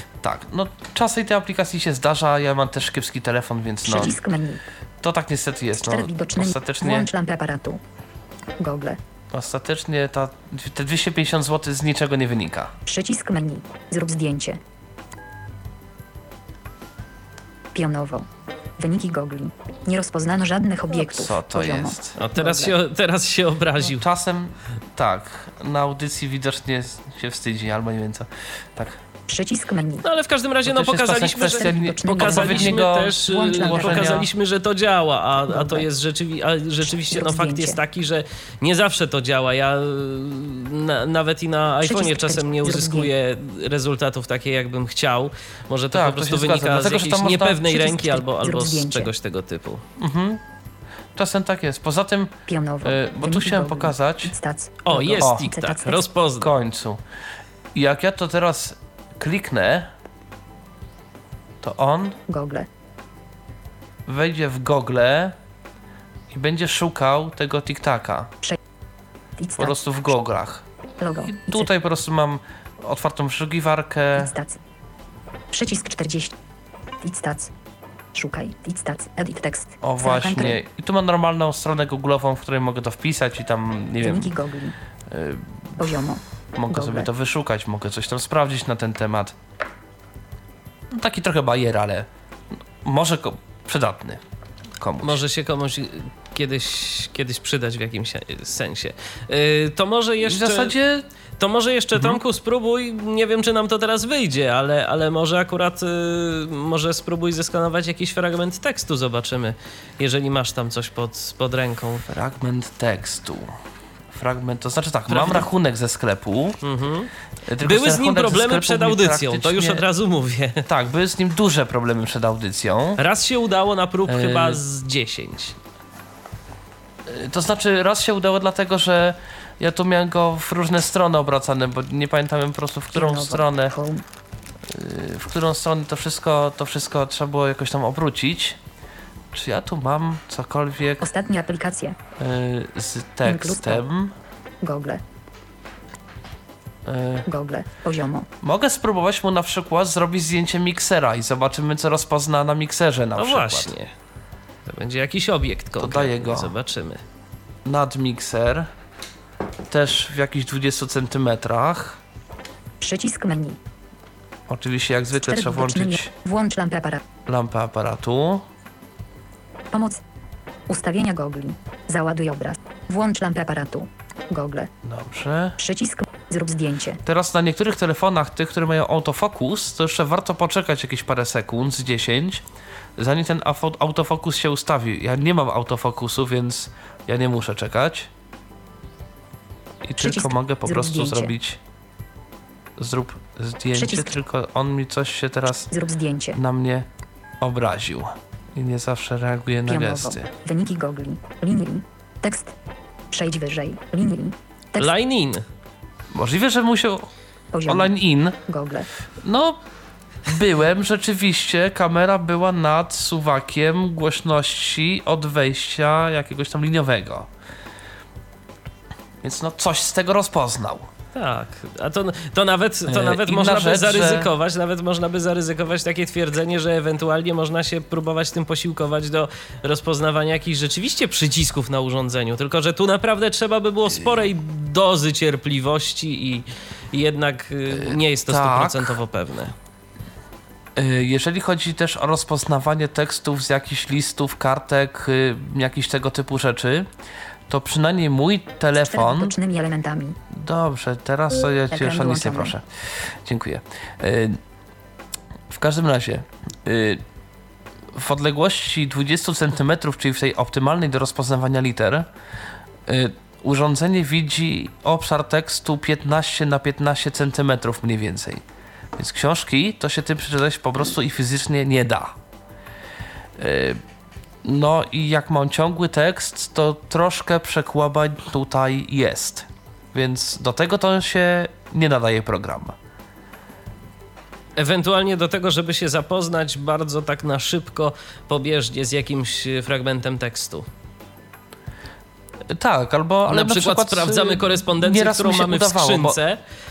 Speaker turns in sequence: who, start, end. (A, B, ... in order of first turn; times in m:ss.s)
0:00.2-0:04.2 A
0:03.8-0:04.6 B
0:05.0-0:07.1 A
0:05.8-0:07.8 B
0:08.6-0:09.0 B
0:09.3-0:12.7 A
0:12.8-0:14.6 B
0:17.7-0:18.3 B
0:18.8-0:22.7 B
0:20.9-0:22.2 A
0:22.2-0:24.0 C
0:23.8-0:29.0 A
0:29.3-0:30.0 B
0:30.0-0:49.8 C
0:30.6-0:34.3 A
0:31.4-0:34.2 B
0:35.5-0:35.9 B
0:36.8-0:37.8 B
0:41.8-0:43.1 B
0:45.9-0:47.6 A
0:47.6-0:49.1 B
0:50.0-0:50.4 A
0:51.1-0:54.3 A
0:52.5-0:56.0 B
0:54.8-0:56.5 C
0:55.2-0:55.5 A
0:56.4-0:57.0 A
0:57.7-0:59.9 A
1:01.6-1:02.2 A
1:02.3-1:02.7 B
1:04.0-1:05.4 A
1:06.3-1:08.3 A
1:09.4-1:09.8 B
1:09.6-1:10.6 A
1:11.0-1:11.7 B
1:11.2-1:14.3 A
1:14.2-1:14.6 B
1:15.5-1:16.4 B
1:17.0-1:17.5 B
1:18.1-1:20.6 B
1:19.8-1:24.3 A
1:24.0-1:24.7 B
1:25.1-1:26.0 A
1:25.8-1:27.1 B
1:26.5-1:29.4 A
1:30.9-1:32.1 A
1:32.8-1:34.2 A
1:34.8-1:35.2 A
1:35.0-1:40.8 C
1:40.2-1:41.0 A
1:41.4-1:52.0 C
1:41.9-1:42.2 A
1:52.0-1:53.5 A
1:54.1-1:56.6 A
1:55.1-1:55.4 C
1:56.6-1:57.1 C
1:57.5-1:59.8 A
1:57.6-2:00.6 C
2:00.6-2:03.0 A
2:03.0-2:05.6 C
2:04.0-2:04.6 A
2:07.0-2:13.7 A
2:12.9-2:14.0 B
2:14.7-2:18.6 A
2:19.3-2:21.1 A
2:21.0-2:22.0 B
2:22.2-2:24.1 A
2:23.2-2:23.8 B
2:24.6-2:25.0 B
2:26.8-2:27.3 A
2:27.2-2:28.3 B
2:28.4-2:33.7 A
2:33.2-2:33.9 C
2:34.6-2:37.0 C
2:35.8-2:36.5 A
2:37.6-2:38.7 A
2:39.7-2:42.0 A
2:42.8-2:43.6 B
2:44.5-2:46.1 A
2:45.1-2:47.0 B
2:47.2-2:48.4 A
2:49.7-2:50.0 B
2:50.7-2:54.7 B
2:54.8-2:55.6 A
2:55.6-2:57.0 B
2:57.0-3:02.4 A
3:03.0-3:08.1 A
3:09.8-3:11.6 A
3:10.0-3:11.3 B
3:12.8-3:15.7 A
3:13.7-3:14.2 B
3:15.7-3:16.4 B
3:16.3-3:16.9 A
3:17.4-3:20.3 A
3:19.6-3:22.5 B
3:23.1-3:24.9 B
3:24.8-3:25.4 C
3:26.1-3:27.1 A
3:27.5-3:27.9 B
3:27.6-3:28.4 A
3:28.4-3:28.9 B
3:29.2-3:29.6 A
3:30.2-3:37.3 A
3:39.2-3:40.9 A
3:41.1-3:59.5 C
3:42.8-3:44.3 A
3:57.7-3:59.0 A
4:00.8-4:06.9 A
4:07.5-4:09.3 A
4:08.8-4:10.2 B
4:10.3-4:14.4 A
4:11.7-4:12.5 B
4:15.5-4:17.0 A
4:17.9-4:22.1 A
4:22.9-4:28.4 A
4:29.0-4:32.2 A
4:33.4-4:33.8 A
4:34.4-4:42.8 A
4:44.6-4:50.6 C
4:52.5-4:56.2 A
4:53.3-4:56.4 C